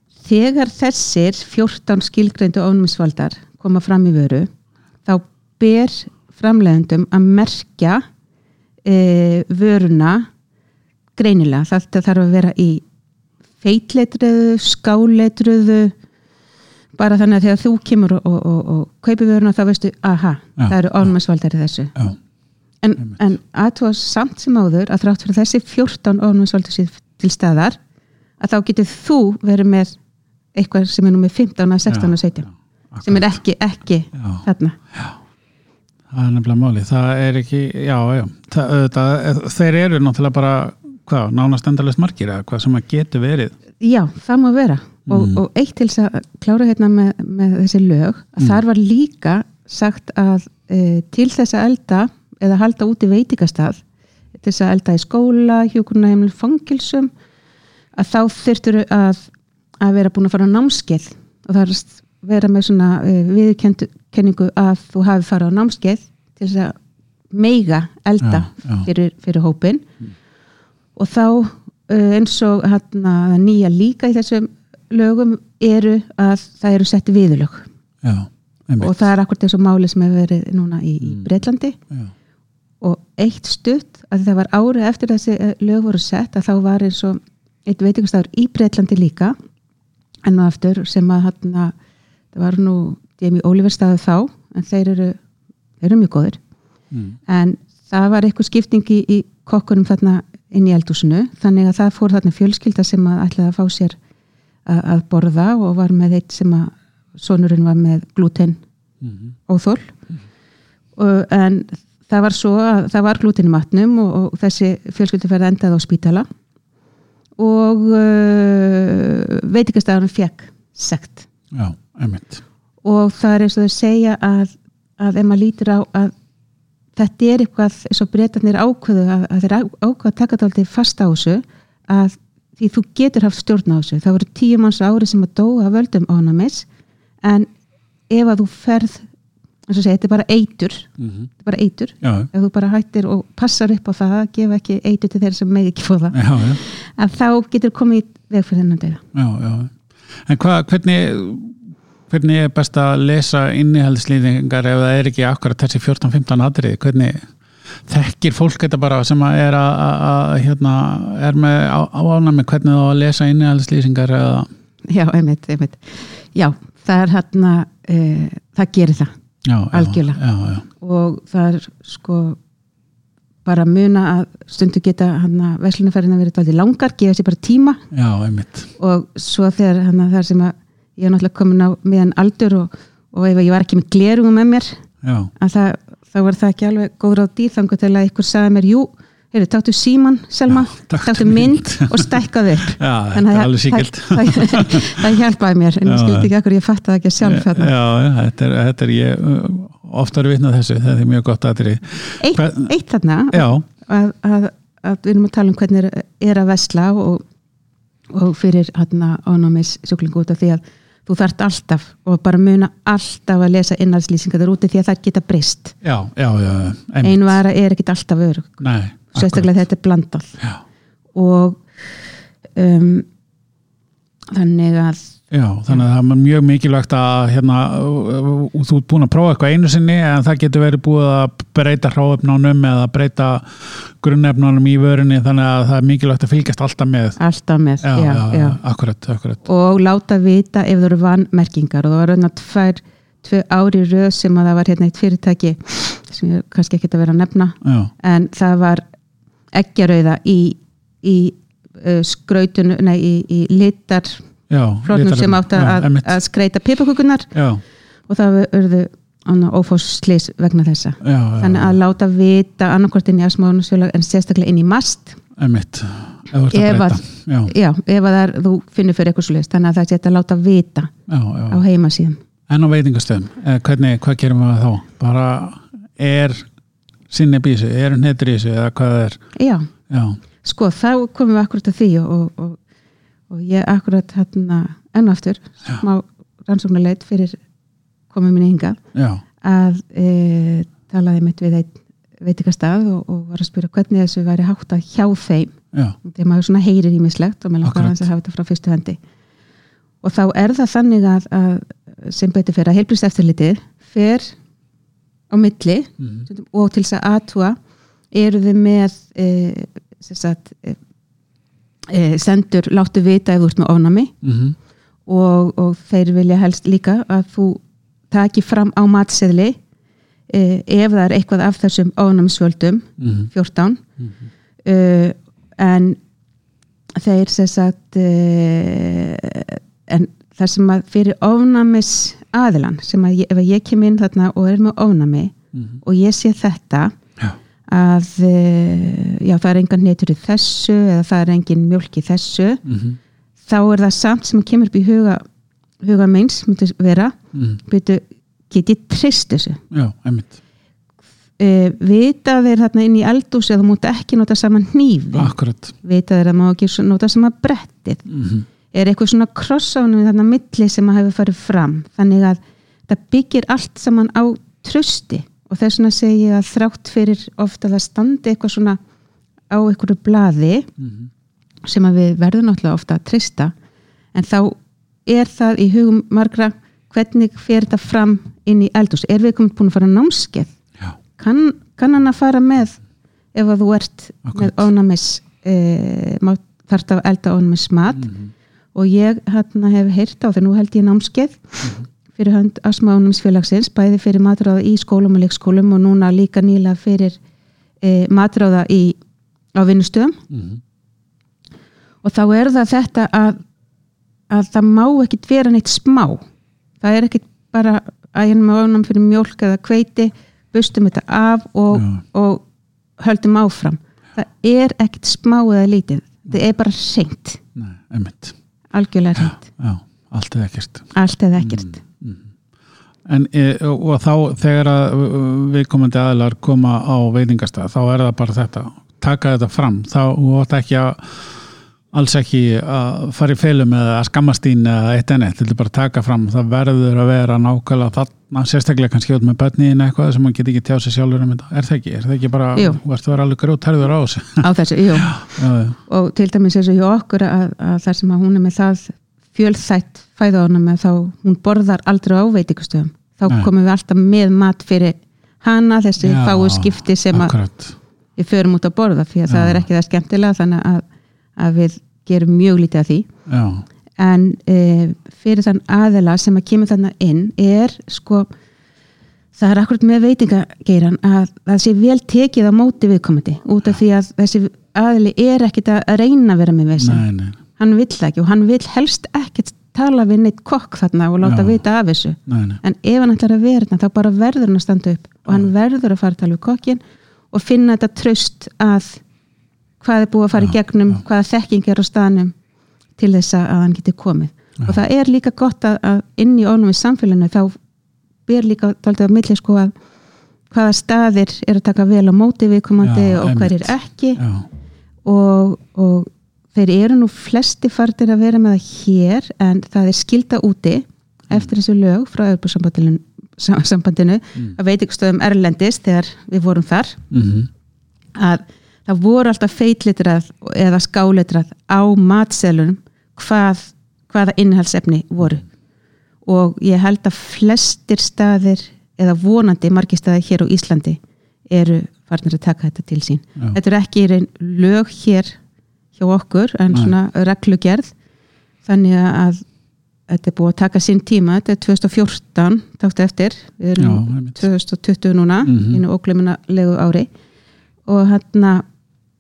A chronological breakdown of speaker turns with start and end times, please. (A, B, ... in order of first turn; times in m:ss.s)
0:00.2-0:04.5 A
0:05.0-0:08.0 A
0:08.8-0:10.3 A
0:11.2-0:12.8 A
0:13.6-0:16.0 A
0:17.0-0:22.0 A
0:22.8-0:27.8 A
0:28.4-0:30.0 A
0:30.6-0:32.5 A
0:32.9-0:33.2 B
0:33.0-0:34.8 A
0:34.2-0:35.2 B
0:36.1-0:43.5 B
0:43.8-0:53.8 A
0:45.1-0:45.4 B
0:54.4-0:57.1 A
0:58.0-1:06.8 A
1:07.3-1:09.9 A
1:08.2-1:08.9 B
1:11.0-1:17.7 A
1:18.0-1:19.1 B
1:18.8-1:21.8 A
1:22.8-1:29.4 A
1:30.3-1:31.7 A
1:32.3-1:35.2 A
1:35.8-1:36.4 A
1:36.9-1:37.2 B
1:37.3-1:44.0 A
1:44.7-1:48.6 A
1:49.0-1:49.3 B
1:49.5-1:49.9 A
1:51.0-1:56.3 A
1:57.4-2:01.3 A
2:01.5-2:02.4 B
2:02.8-2:06.1 A
2:07.0-2:16.7 A
2:17.2-2:17.5 A
2:18.1-2:19.1 A
2:19.7-2:29.0 A
2:21.0-2:21.3 B
2:22.0-2:22.3 B
2:26.1-2:26.6 B
2:29.1-2:37.3 B
2:37.8-2:44.5 B
2:44.9-2:49.1 A
2:49.4-2:50.7 B
2:49.7-2:50.2 A
2:50.8-2:52.4 A
2:53.4-2:57.8 A
2:57.9-2:58.7 B
2:58.8-3:04.8 A
3:05.0-3:05.3 B
3:05.4-3:17.7 A
3:10.5-3:12.1 B
3:12.8-3:15.0 B
3:15.9-3:16.3 B
3:17.2-3:22.7 B
3:22.2-3:27.2 A
3:23.3-3:23.6 B
3:28.1-3:35.8 A
3:35.8-3:37.4 B
3:37.0-3:40.4 A
3:38.6-3:39.6 B
3:41.2-3:41.6 A
3:42.6-3:43.1 A
3:44.3-3:45.2 A
3:45.3-3:57.2 B
3:57.2-3:58.6 A
3:57.8-3:59.4 B
3:59.4-4:08.8 A
4:07.6-4:07.9 B
4:09.5-4:14.2 A
4:14.5-4:16.1 B
4:14.8-4:17.3 A
4:17.3-4:17.6 B
4:18.1-4:25.2 A
4:21.0-4:21.8 B
4:25.4-4:27.5 B
4:26.5-4:30.9 A
4:31.1-4:31.6 B
4:31.5-4:32.2 A
4:32.5-4:36.5 B
4:37.1-4:39.2 B
4:39.4-4:39.7 A
4:39.9-4:40.2 B
4:40.4-4:42.6 A
4:43.3-4:47.4 A
4:48.1-4:48.8 A
4:48.9-4:49.2 B
4:49.4-4:59.0 A
4:57.6-4:58.0 B
5:00.0-5:04.4 A
5:05.3-5:07.6 A
5:08.1-5:10.8 A
5:11.9-5:14.2 A
5:14.2-5:14.6 B
5:15.1-5:19.6 A
5:20.3-5:23.8 A
5:23.0-5:23.3 B
5:24.6-5:26.0 A
5:27.0-5:37.0 A
5:37.7-5:42.6 A
5:42.6-5:43.0 B
5:43.5-5:45.2 A
5:45.8-5:49.6 A
5:47.3-5:47.6 B
5:49.7-5:50.4 B
5:51.4-5:58.1 A
5:55.2-5:55.7 B
5:58.1-5:58.5 B
5:58.7-6:08.8 A
6:09.5-6:10.7 A
6:10.8-6:11.1 B
6:11.6-6:13.5 A
6:14.1-6:20.5 A
6:21.2-6:22.8 A
6:23.3-6:28.1 A
6:24.3-6:24.6 B
6:28.0-6:28.3 B
6:28.8-6:37.2 A
6:37.8-6:39.0 A
6:39.6-6:40.2 A
6:40.3-6:40.6 B
6:42.0-6:43.4 A
6:44.3-6:46.2 A
6:46.8-6:52.4 A
6:51.7-6:52.0 B
6:53.0-6:57.4 A
6:57.6-6:58.3 B
6:58.7-6:59.4 A
6:59.2-7:02.3 B
7:00.9-7:01.8 A
7:03.1-7:24.4 B
7:24.4-7:25.2 A
7:25.0-7:25.8 B
7:25.9-7:37.4 A
7:36.0-7:37.8 B
7:38.2-7:40.9 A
7:39.3-7:39.6 B
7:41.4-7:43.1 A
7:43.3-7:43.6 B
7:44.0-7:48.3 A
7:49.4-7:57.0 A
7:56.8-7:57.4 B
7:57.6-8:06.8 A
8:01.2-8:01.6 B
8:02.3-8:02.6 B
8:07.3-8:09.0 A
8:09.8-8:12.3 A
8:13.0-8:17.6 A
8:18.3-8:19.7 A
8:20.5-8:24.2 A
8:22.8-8:24.5 B
8:25.0-8:37.0 A
8:37.1-8:37.5 B
8:38.2-8:45.4 A
8:46.3-8:55.4 A
8:56.0-8:57.9 A
8:58.6-8:59.4 A
9:00.1-9:07.1 A
9:03.8-9:04.4 B
9:05.5-9:05.8 B
9:07.9-9:08.6 A